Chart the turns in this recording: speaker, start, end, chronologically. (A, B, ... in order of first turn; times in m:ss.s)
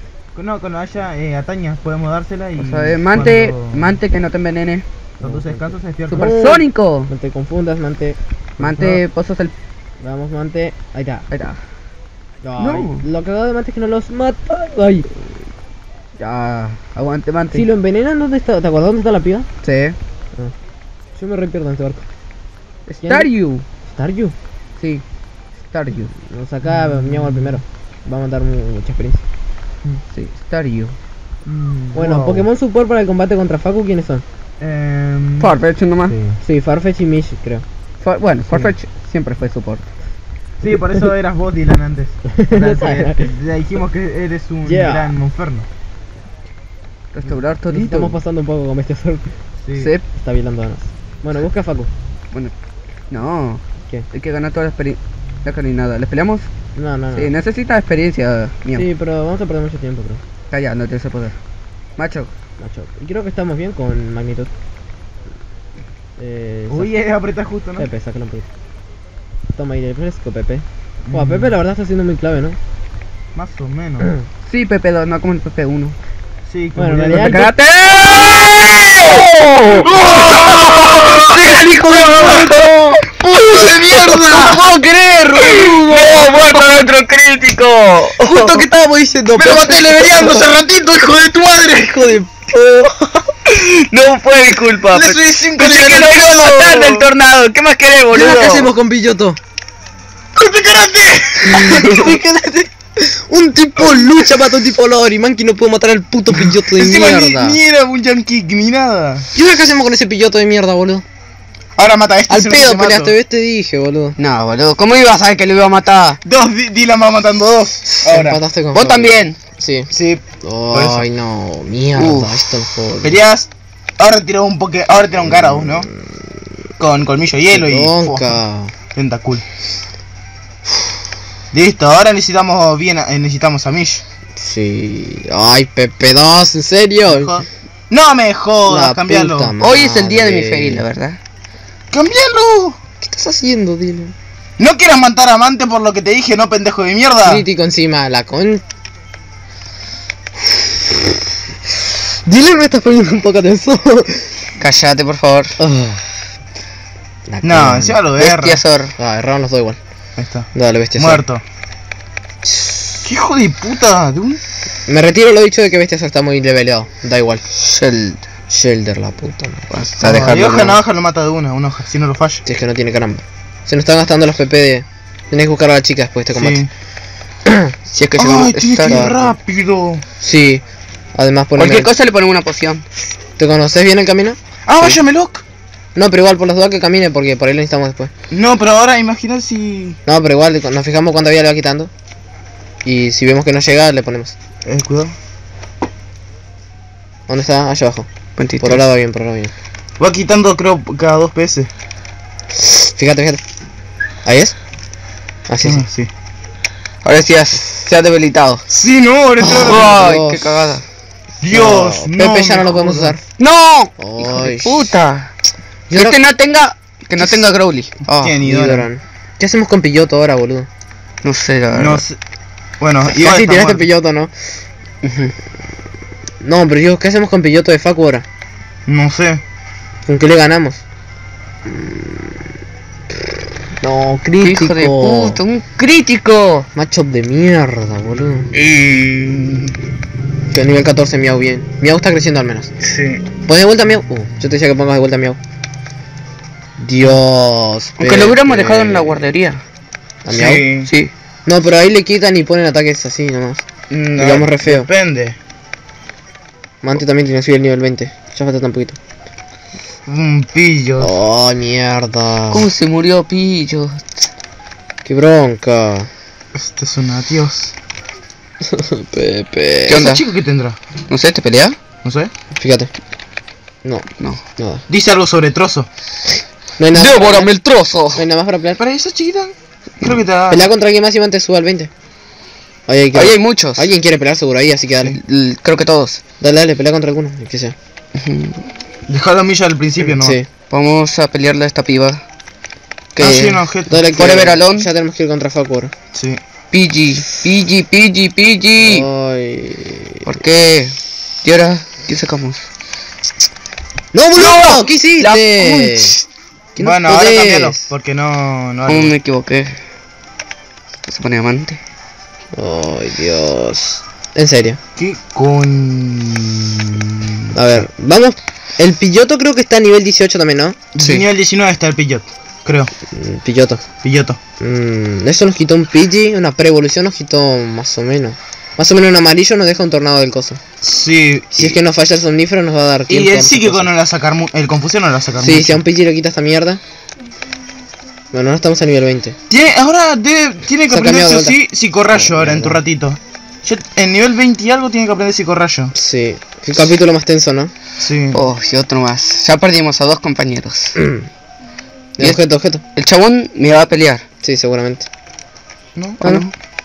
0:00.4-0:04.0 A
0:02.6-0:04.8 B
0:05.2-0:06.6 A
0:05.2-0:08.2 C
0:06.1-0:07.1 B
0:08.6-0:09.5 B
0:08.6-0:09.0 A
0:10.0-0:11.2 C
0:11.3-0:11.6 B
0:12.4-0:15.1 C
0:12.6-0:13.0 B
0:16.2-0:17.6 B
0:17.5-0:19.5 C
0:19.6-0:20.0 B
0:21.2-0:22.1 C
0:22.9-0:23.6 B
0:23.0-0:23.3 C
0:23.9-0:24.4 C
0:24.8-0:25.0 B
0:25.6-0:26.1 B
0:26.2-0:29.2 C
0:26.6-0:27.6 A
0:30.1-0:31.0 B
0:31.4-0:32.5 A
0:31.9-0:34.2 C
0:34.6-0:35.5 A
0:35.4-0:36.2 B
0:36.3-0:37.6 C
0:38.0-0:39.9 B
0:38.5-0:38.8 A
0:40.6-0:45.7 A
0:42.3-0:43.3 C
0:44.6-0:45.1 C
0:47.1-0:48.2 B
0:47.7-0:49.2 C
0:49.6-0:50.0 A
0:49.8-0:50.0 B
0:50.1-0:51.9 C
0:53.1-0:56.5 B
0:56.8-0:57.3 C
0:57.1-0:58.9 B
0:58.7-1:00.2 C
1:00.5-1:01.4 B
1:02.0-1:02.3 B
1:02.6-1:04.5 C
1:06.2-1:06.9 C
1:06.7-1:07.9 A
1:07.8-1:08.5 C
1:09.5-1:12.6 C
1:11.0-1:11.6 A
1:13.3-1:14.1 A
1:14.5-1:16.0 B
1:16.5-1:17.5 A
1:16.8-1:17.5 C
1:17.1-1:28.6 B
1:19.6-1:22.7 A
1:23.2-1:24.8 A
1:25.4-1:26.2 A
1:28.2-1:30.4 C
1:29.3-1:32.1 A
1:29.8-1:30.4 B
1:31.8-1:33.2 C
1:33.5-1:38.7 B
1:34.9-1:37.1 A
1:38.1-1:39.4 C
1:40.4-1:42.2 A
1:41.4-1:47.6 C
1:46.4-1:49.3 A
1:49.4-1:51.0 C
1:51.8-1:53.1 A
1:52.3-1:54.2 C
1:54.2-1:56.2 B
1:56.2-1:58.4 A
1:58.0-2:03.2 C
1:58.7-1:59.4 B
1:59.9-2:01.1 A
2:02.0-2:02.4 B
2:03.0-2:05.9 A
2:05.4-2:05.9 C
2:06.8-2:08.4 A
2:07.5-2:08.7 C
2:08.9-2:09.4 A
2:11.5-2:14.0 A
2:14.4-2:17.4 C
2:17.1-2:19.5 A
2:18.7-2:20.8 C
2:19.6-2:21.2 B
2:21.9-2:22.8 A
2:23.0-2:24.1 C
2:24.6-2:27.4 A
2:27.2-2:28.6 C
2:32.2-2:34.3 C
2:34.6-2:35.6 B
2:35.6-2:36.1 C
2:37.3-2:38.0 C
2:37.4-2:38.6 A
2:37.7-2:39.0 B
2:39.0-2:39.8 C
2:40.2-2:41.4 A
2:40.5-2:41.2 C
2:42.4-2:42.8 C
2:43.0-2:44.4 A
2:44.9-2:47.4 C
2:47.6-2:48.2 B
2:48.5-2:50.3 C
2:49.7-2:50.8 B
2:50.0-2:52.4 A
2:52.4-2:56.6 C
2:56.3-2:56.7 A
2:57.5-2:57.7 C
2:57.9-2:59.1 B
2:58.2-3:00.0 A
2:58.9-2:59.3 C
3:00.2-3:00.6 C
3:01.1-3:01.9 C
3:01.6-3:02.8 B
3:03.4-3:04.4 C
3:04.7-3:05.4 A
3:06.0-3:08.1 C
3:08.3-3:10.0 A
3:10.1-3:11.9 C
3:12.8-3:14.4 C
3:14.6-3:15.1 A
3:17.3-3:18.1 C
3:18.4-3:18.8 B
3:18.6-3:19.5 C
3:20.0-3:21.7 A
3:22.6-3:23.4 C
3:24.2-3:24.6 C
3:25.5-3:25.9 C
3:25.6-3:26.1 A
3:27.0-3:28.6 B
3:28.7-3:30.1 A
3:29.4-3:30.8 B
3:29.8-3:30.7 C
3:31.4-3:33.2 A
3:31.5-3:33.2 C
3:33.4-3:35.3 B
3:34.0-3:35.0 C
3:35.9-3:36.2 C
3:35.9-3:38.4 B
3:38.1-3:38.9 A
3:38.4-3:40.7 C
3:41.2-3:42.0 B
3:41.8-3:42.2 A
3:42.8-3:43.9 A
3:43.1-3:44.3 C
3:45.0-3:45.3 B
3:46.4-3:48.2 C
3:48.9-3:49.4 A
3:50.1-3:50.8 C
3:51.6-3:52.4 C
3:53.1-3:55.4 C
3:54.4-3:56.7 B
3:56.7-3:58.5 C
3:58.5-3:59.8 A
4:00.5-4:02.7 C
4:02.8-4:03.2 A
4:03.4-4:05.4 C
4:06.8-4:09.2 C
4:08.0-4:09.6 B
4:10.2-4:10.6 C
4:10.3-4:10.9 A
4:10.8-4:11.1 B
4:11.4-4:13.6 C
4:13.9-4:15.4 A
4:14.2-4:14.9 C
4:16.8-4:19.0 C
4:20.1-4:21.1 A
4:21.0-4:22.7 C
4:22.5-4:24.0 B
4:25.0-4:26.1 C
4:26.5-4:27.7 A
4:28.7-4:30.1 C
4:29.9-4:30.2 B
4:29.9-4:30.8 A
4:31.1-4:31.8 B
4:32.0-4:32.3 A
4:32.6-4:32.9 C
4:34.6-4:34.8 C
4:34.9-4:35.9 A
4:36.8-4:37.5 C
4:36.9-4:38.2 B
4:38.1-4:38.8 C
4:38.8-4:40.7 A
4:40.5-4:41.9 C
4:42.9-4:45.2 C
4:43.1-4:43.9 B
4:45.0-4:46.2 B
4:46.4-4:47.8 C
4:48.1-4:48.6 B
4:49.1-4:50.4 A
4:50.1-4:50.5 C
4:50.7-4:52.2 B
4:53.2-4:53.6 B
4:53.2-4:54.1 A
4:53.2-4:55.9 C
4:54.2-4:54.9 B
4:56.1-4:56.4 A
4:56.7-4:59.1 B
4:58.8-5:00.3 C
5:00.2-5:02.6 B
5:04.1-5:06.2 C
5:04.3-5:06.2 B
5:06.8-5:07.9 C
5:06.8-5:09.1 A
5:08.9-5:09.8 B
5:11.1-5:11.8 B
5:12.6-5:14.8 C
5:15.0-5:17.8 A
5:17.5-5:20.8 C
5:20.9-5:22.9 A
5:21.0-5:21.2 B
5:23.1-5:23.8 C
5:24.0-5:24.4 A
5:24.6-5:30.6 C
5:30.8-5:31.8 A
5:31.5-5:33.9 C
5:33.1-5:35.8 A
5:35.4-5:36.8 C
5:38.3-5:39.4 C
5:39.5-5:45.9 A
5:40.9-5:41.6 C
5:42.1-5:42.8 C
5:45.9-5:47.7 C
5:48.0-5:48.4 A
5:48.3-5:51.0 B
5:51.0-5:51.3 C
5:52.2-5:52.8 C
5:53.0-5:54.2 B
5:54.4-5:55.1 C
5:56.0-5:56.2 A
5:56.2-5:56.5 B